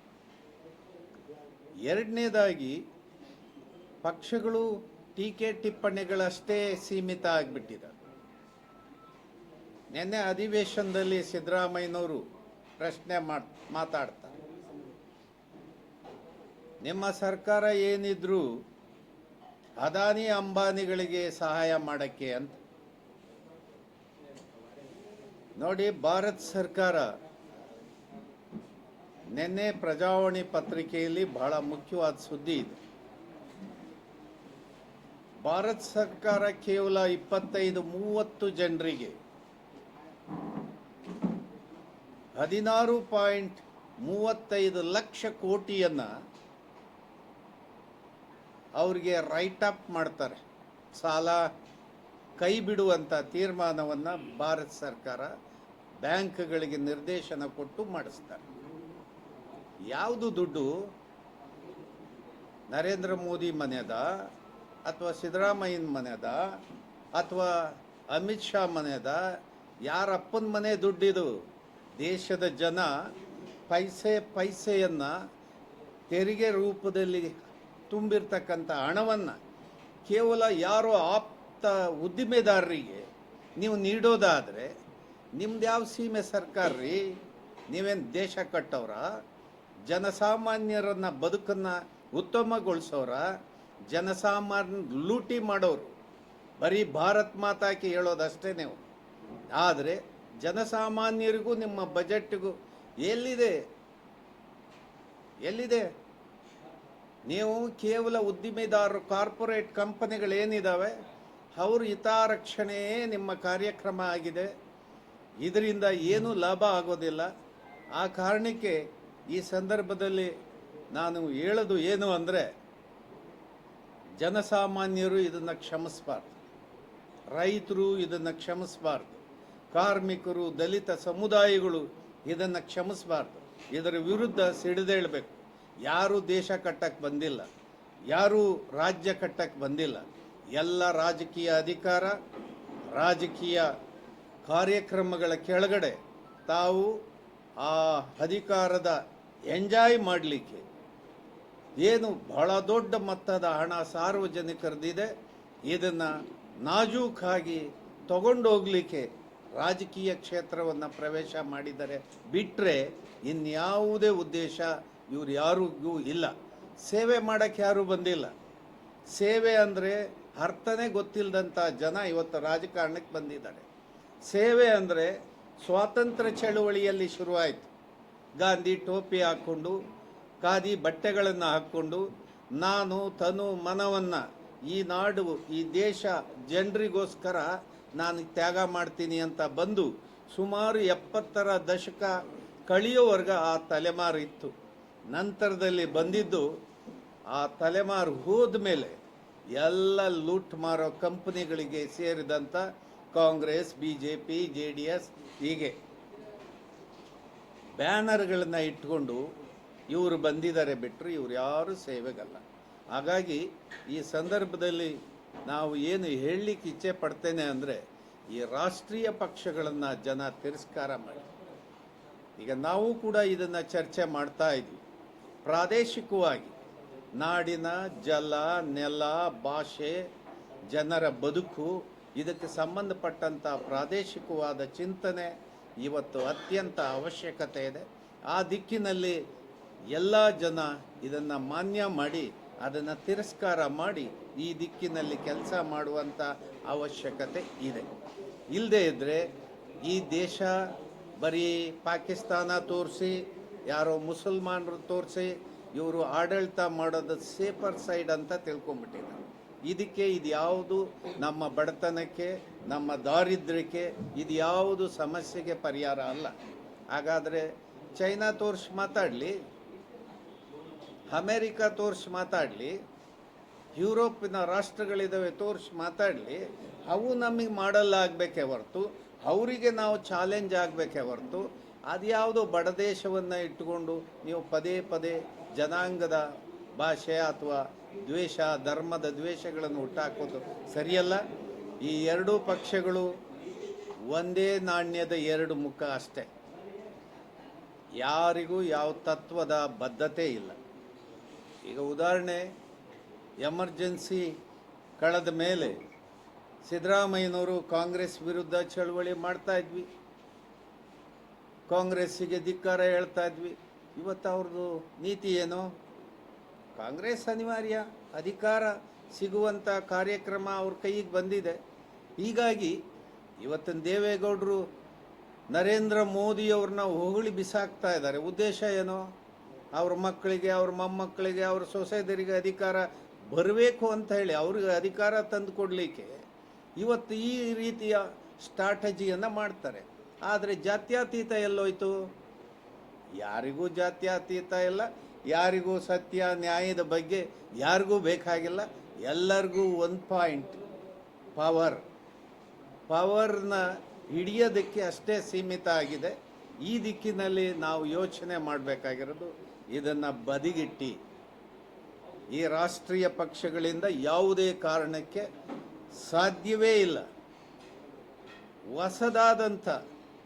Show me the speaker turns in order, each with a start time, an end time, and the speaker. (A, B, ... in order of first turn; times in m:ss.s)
0:01.8-0:02.8 A
0:04.0-0:07.9 A
0:09.9-0:12.2 A
0:12.8-0:14.3 A
0:16.8-0:18.5 A
0:19.8-0:22.6 A
0:25.6-0:27.1 A
0:29.3-0:32.8 A
0:35.4-0:39.2 A
0:42.4-0:46.1 A
0:48.8-0:50.4 A
0:50.9-0:51.5 A
0:52.4-0:55.3 A
0:56.0-0:58.4 A
0:59.9-1:00.7 A
1:02.7-1:04.2 A
1:04.8-1:06.6 A
1:07.2-1:09.2 A
1:09.8-1:11.3 A
1:12.0-1:13.0 A
1:13.7-1:15.1 A
1:16.1-1:17.3 A
1:17.9-1:19.4 A
1:20.0-1:23.0 A
1:23.6-1:24.7 A
1:25.4-1:27.1 A
1:27.7-1:29.1 A
1:29.9-1:33.3 A
1:33.9-1:35.9 A
1:36.6-1:38.8 A
1:39.5-1:43.6 A
1:45.4-1:45.9 A
1:47.3-1:50.9 A
1:51.6-1:54.5 A
1:55.4-1:57.3 A
1:58.0-2:00.3 A
2:00.9-2:02.5 A
2:04.2-2:06.4 A
2:07.3-2:09.2 A
2:09.7-2:17.5 A
2:18.1-2:22.2 A
2:22.9-2:23.7 A
2:24.4-2:27.0 A
2:27.6-2:30.6 A
2:31.8-2:35.1 A
2:35.7-2:48.3 A
2:49.1-2:53.7 A
2:54.3-2:57.7 A
2:58.4-2:59.8 A
3:00.4-3:02.0 A
3:02.6-3:14.5 A
3:15.1-3:16.5 A
3:17.3-3:19.0 A
3:19.5-3:25.8 A
3:27.8-3:29.2 A
3:29.9-3:37.8 A
3:38.3-3:41.3 A
3:42.4-3:44.8 A
3:45.4-3:46.5 A
3:47.2-3:50.0 A
3:50.7-3:59.2 A
3:59.9-4:07.9 A
4:08.5-4:09.3 A
4:09.8-4:26.3 A
4:26.9-4:29.4 A
4:31.1-4:32.8 A
4:33.7-4:46.2 A
4:46.8-4:51.2 A
4:51.8-4:53.1 A
4:54.1-4:56.3 A
4:58.0-5:00.6 A
5:01.6-5:02.5 A
5:03.4-5:04.3 A
5:05.0-5:05.8 A
5:06.6-5:09.9 A
5:11.7-5:15.7 A
5:16.8-5:21.6 A
5:22.2-5:22.8 A
5:23.4-5:24.7 A
5:25.5-5:29.0 A
5:29.7-5:36.1 A
5:36.8-5:41.9 A
5:43.2-5:50.6 A
5:51.4-5:51.8 A
5:52.9-6:01.0 A
6:02.3-6:05.3 A
6:05.9-6:07.0 A
6:08.7-6:09.8 A